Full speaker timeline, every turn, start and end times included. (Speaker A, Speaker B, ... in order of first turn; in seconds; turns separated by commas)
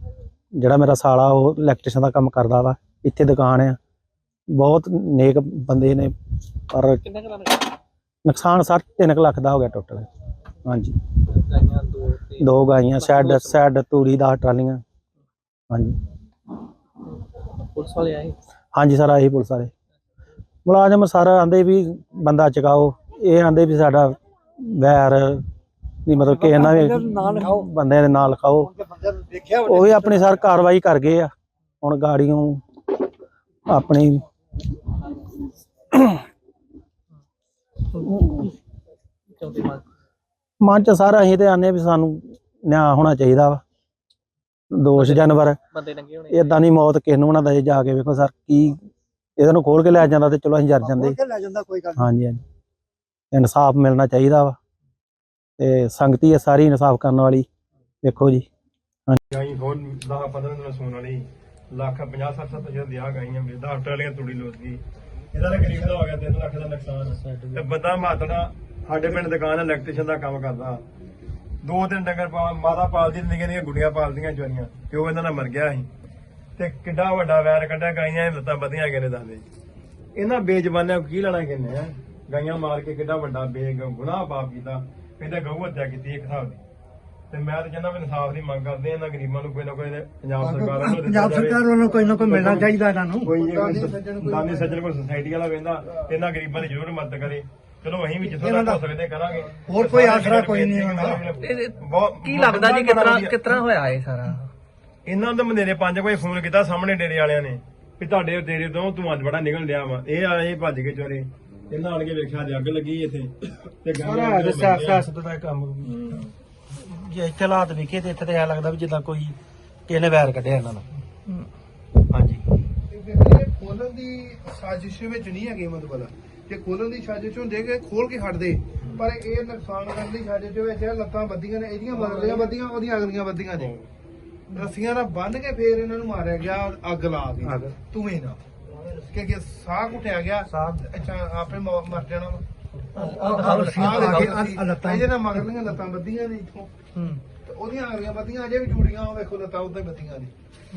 Speaker A: 0.6-3.8, Speaker A: 4.6-6.1, Speaker A: 6.7-7.0, Speaker A: 8.2-10.1, Speaker A: 10.7-11.0, Speaker A: 12.4-14.8, Speaker B: 13.1-13.4, Speaker A: 15.7-16.0, Speaker B: 17.7-18.2, Speaker A: 18.7-19.7, Speaker A: 20.6-25.4, Speaker A: 26.1-28.7, Speaker C: 26.2-27.6, Speaker C: 28.6-30.5, Speaker A: 29.7-31.3, Speaker A: 31.8-32.6, Speaker A: 33.7-34.2, Speaker A: 35.9-36.2, Speaker A: 38.0-38.5, Speaker B: 39.4-39.8, Speaker A: 40.6-43.6, Speaker A: 44.7-45.6, Speaker A: 46.3-48.8, Speaker A: 49.4-51.2, Speaker C: 50.8-52.1, Speaker A: 52.0-52.4, Speaker A: 53.3-54.6, Speaker A: 55.6-57.5, Speaker A: 58.0-58.5, Speaker D: 59.3-64.8, Speaker D: 65.3-70.8, Speaker A: 67.2-67.7, Speaker D: 71.6-75.9, Speaker D: 76.6-79.4, Speaker D: 80.2-86.6, Speaker D: 87.3-91.6, Speaker C: 90.4-93.3, Speaker D: 92.2-92.7, Speaker D: 93.2-103.4, Speaker E: 93.4-94.8, Speaker C: 98.4-98.8, Speaker C: 99.7-101.2, Speaker B: 102.4-102.8, Speaker B: 103.6-104.4, Speaker D: 105.1-115.0, Speaker A: 114.0-119.3, Speaker A: 119.9-120.8, Speaker A: 122.1-122.4, Speaker E: 122.9-133.8, Speaker E: 134.5-138.4, Speaker A: 137.4-137.7, Speaker E: 139.0-142.4, Speaker E: 143.0-146.7, Speaker C: 143.1-145.1, Speaker B: 143.2-144.3, Speaker E: 147.3-150.3